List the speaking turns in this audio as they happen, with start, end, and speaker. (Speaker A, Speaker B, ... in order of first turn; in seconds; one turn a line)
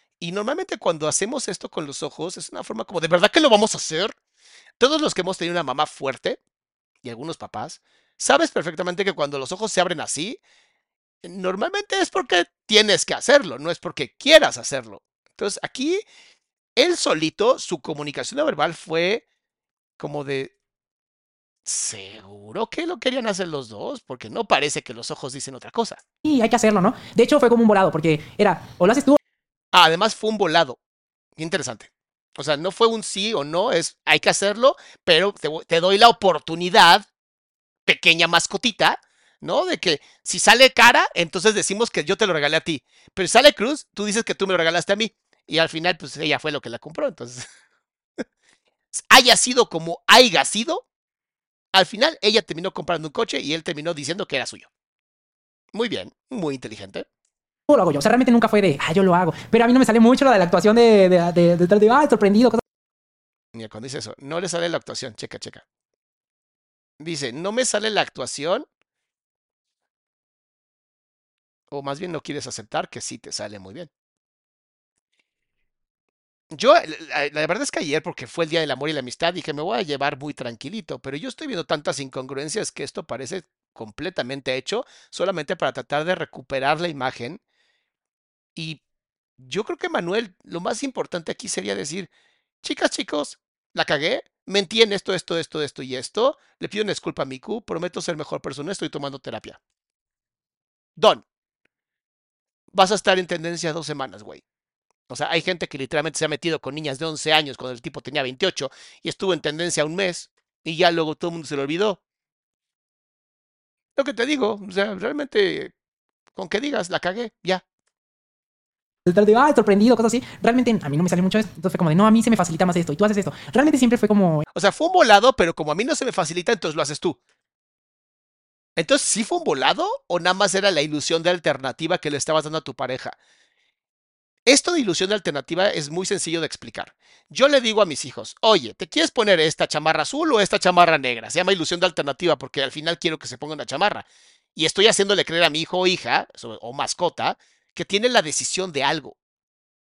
Speaker A: 0.2-4.2
Speaker A: 4.8-6.4
Speaker A: 7.0-10.4
Speaker A: 11.2-16.0
Speaker A: 16.8-19.2
Speaker A: 20.0-20.5
Speaker A: 21.7-26.0
Speaker B: 26.2-29.2
Speaker A: 29.7-30.8
Speaker A: 31.4-37.1
Speaker A: 37.9-47.5
Speaker A: 48.9-50.8
Speaker A: 51.7-54.7
Speaker A: 55.7-57.1
Speaker B: 57.7-62.6
Speaker A: 63.5-65.6
Speaker A: 67.0-68.7
Speaker A: 71.7-73.9
Speaker A: 76.5-87.4
Speaker A: 89.4-92.1
Speaker A: 92.6-99.6
Speaker A: 101.0-101.2
Speaker A: 102.7-104.4
Speaker A: 105.1-112.0
Speaker A: 114.0-115.7
Speaker A: 116.4-117.6
Speaker B: 119.1-124.5
Speaker A: 124.5-127.2
Speaker A: 128.8-133.2
Speaker A: 134.5-144.1
Speaker A: 144.6-149.2